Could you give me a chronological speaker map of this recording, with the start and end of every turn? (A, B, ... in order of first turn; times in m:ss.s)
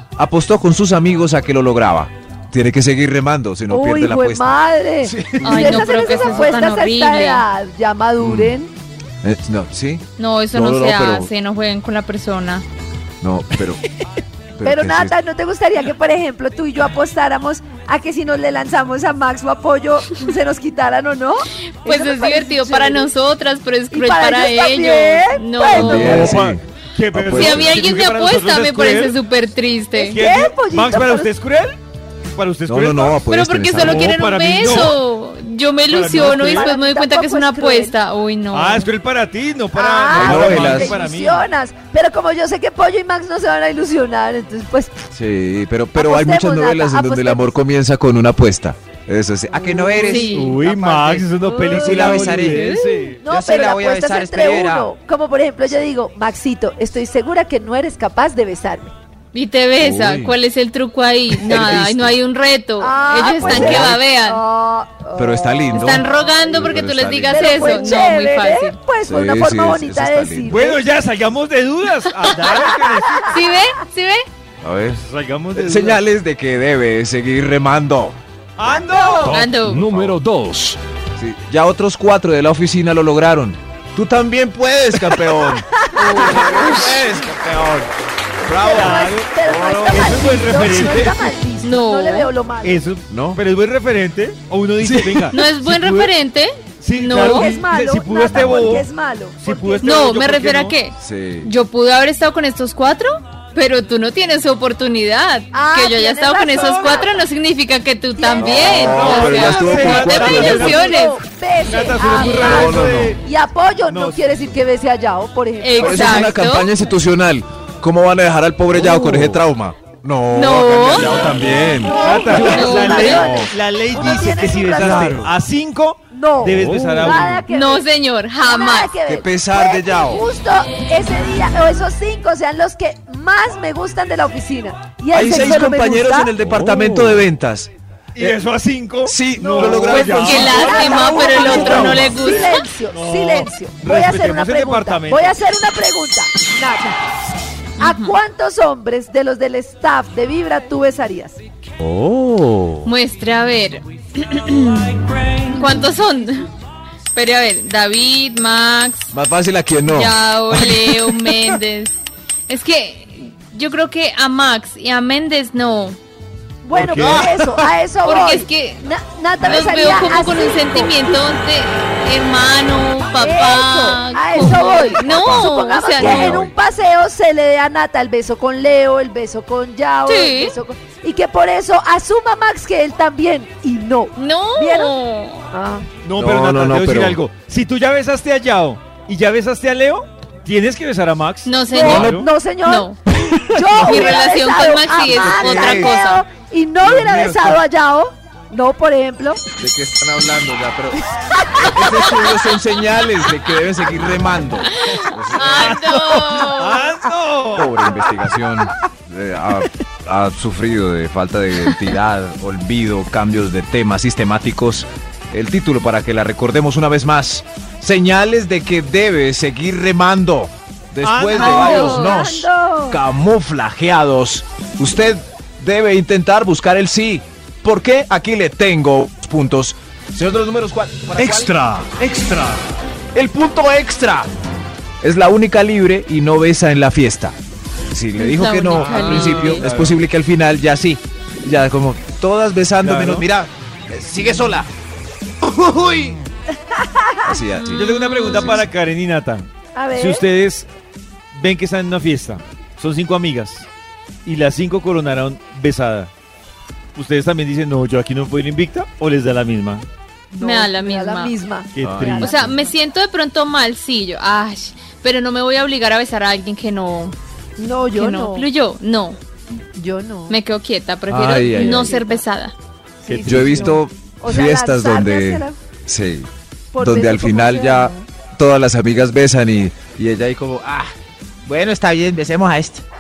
0:00.2-0:06.4 A
0:03.7-0:08.7 B
0:05.4-0:07.4 C
0:08.2-0:08.6 A
0:09.2-0:11.3 A
0:10.2-0:12.6 C
0:13.2-0:13.8 A
0:14.6-0:15.2 A
0:14.6-0:23.1 B
0:21.8-0:26.1 C
0:23.9-0:26.4 B
0:25.7-0:27.8 A
0:25.9-0:29.2 D
0:27.3-0:30.2 C
0:30.0-0:31.3 B
0:30.1-0:31.8 D
0:32.3-0:33.2 D
0:32.7-0:35.0 A
0:33.3-0:38.9 C
0:33.8-0:35.0 D
0:35.9-0:36.7 D
0:36.1-0:38.0 B
0:38.5-0:41.5 D
0:39.7-0:44.9 B
0:40.1-0:41.0 A
0:45.1-0:52.7 A
0:46.0-0:47.6 B
0:50.0-0:53.2 D
0:50.0-0:50.6 C
0:51.5-0:52.2 B
0:52.4-0:53.1 C
0:53.2-0:58.9 B
0:53.2-0:54.9 A
0:59.3-1:04.4 C
0:59.8-1:00.4 A
1:01.4-1:02.2 A
1:02.8-1:06.4 B
1:03.4-1:04.0 A
1:05.2-1:08.0 A
1:05.7-1:08.8 C
1:07.3-1:10.8 B
1:09.0-1:10.6 A
1:10.5-1:13.4 D
1:12.5-1:13.3 B
1:13.3-1:14.3 C
1:14.6-1:15.0 A
1:15.0-1:16.0 D
1:15.6-1:18.2 A
1:18.6-1:19.5 D
1:19.2-1:19.9 C
1:19.2-1:20.8 E
1:19.9-1:20.2 A
1:21.2-1:27.9 A
1:25.1-1:27.0 B
1:26.0-1:27.0 C
1:28.4-1:31.3 A
1:28.5-1:32.8 B
1:28.7-1:31.1 D
1:31.6-1:32.3 C
1:32.6-1:36.1 D
1:33.1-1:33.4 A
1:34.8-1:35.4 A
1:35.3-1:37.5 C
1:36.8-1:38.9 D
1:37.1-1:40.0 B
1:39.4-1:40.8 D
1:39.8-1:51.2 C
1:41.0-1:41.5 A
1:45.5-1:47.1 B
1:48.2-1:56.4 B
1:48.4-1:50.8 A
1:48.8-1:51.0 D
1:51.6-1:53.2 D
1:52.1-1:52.6 C
1:52.2-1:53.2 A
1:53.9-1:54.5 D
1:55.6-1:56.7 C
1:55.8-2:02.0 A
1:59.0-1:59.4 E
2:00.3-2:01.3 C
2:00.9-2:07.4 D
2:01.7-2:05.3 B
2:02.3-2:03.4 C
2:04.8-2:05.3 A
2:06.1-2:07.9 B
2:06.4-2:07.4 E
2:07.5-2:08.9 C
2:08.4-2:16.3 B
2:09.1-2:10.3 A
2:15.1-2:18.4 A
2:16.4-2:17.3 E
2:18.2-2:22.1 D
2:19.0-2:20.7 A
2:19.4-2:27.0 B
2:20.0-2:22.7 C
2:21.4-2:22.1 A
2:22.9-2:25.4 D
2:27.8-2:28.1 C
2:27.8-2:31.4 B
2:31.8-2:32.8 E
2:32.8-2:36.5 C
2:37.2-2:39.1 C
2:39.1-2:41.6 A
2:39.8-2:41.9 C
2:42.5-2:46.0 C
2:46.6-2:51.4 B
2:46.7-2:47.7 A
2:46.9-2:47.3 D
2:48.0-2:48.9 C
2:49.4-2:56.4 C
2:53.2-3:04.9 B
2:54.4-2:56.6 A
3:00.1-3:00.5 C
3:04.2-3:05.4 C
3:05.5-3:05.9 B
3:06.0-3:12.3 D
3:06.2-3:07.2 A
3:11.5-3:13.0 C
3:11.7-3:12.9 B
3:11.8-3:12.2 A
3:13.3-3:14.1 A
3:13.5-3:19.4 B
3:13.7-3:16.2 C
3:15.0-3:16.0 A
3:16.8-3:17.6 A
3:19.6-3:26.3 A
3:21.5-3:21.8 B
3:24.8-3:26.9 C
3:25.4-3:27.9 D
3:27.5-3:51.5 A
3:41.0-3:42.1 D
3:41.3-3:42.2 C
3:41.4-3:43.0 B
3:51.2-3:52.6 E
3:53.1-3:54.3 A
3:55.0-3:57.4 A
3:57.9-4:04.7 A
3:58.2-3:59.6 C
3:58.7-4:00.0 D
4:02.8-4:03.3 D
4:05.4-4:06.2 A
4:06.7-4:07.4 B
4:07.2-4:08.6 A
4:07.6-4:08.6 C
4:07.7-4:10.7 D
4:09.7-4:10.2 B
4:11.3-4:13.7 D
4:14.2-4:16.1 D
4:17.0-4:19.8 D
4:20.3-4:22.7 B
4:20.4-4:21.4 C
4:21.8-4:22.4 D
4:21.8-4:22.5 A
4:22.2-4:27.2 C
4:27.6-4:28.5 B
4:27.9-4:29.2 C
4:29.8-4:30.4 B
4:30.3-4:32.5 C
4:31.1-4:32.0 A
4:31.5-4:32.2 B
4:33.0-4:35.6 B
4:33.1-4:33.8 D
4:33.2-4:40.9 A
4:36.7-4:38.0 B
4:41.5-4:42.8 A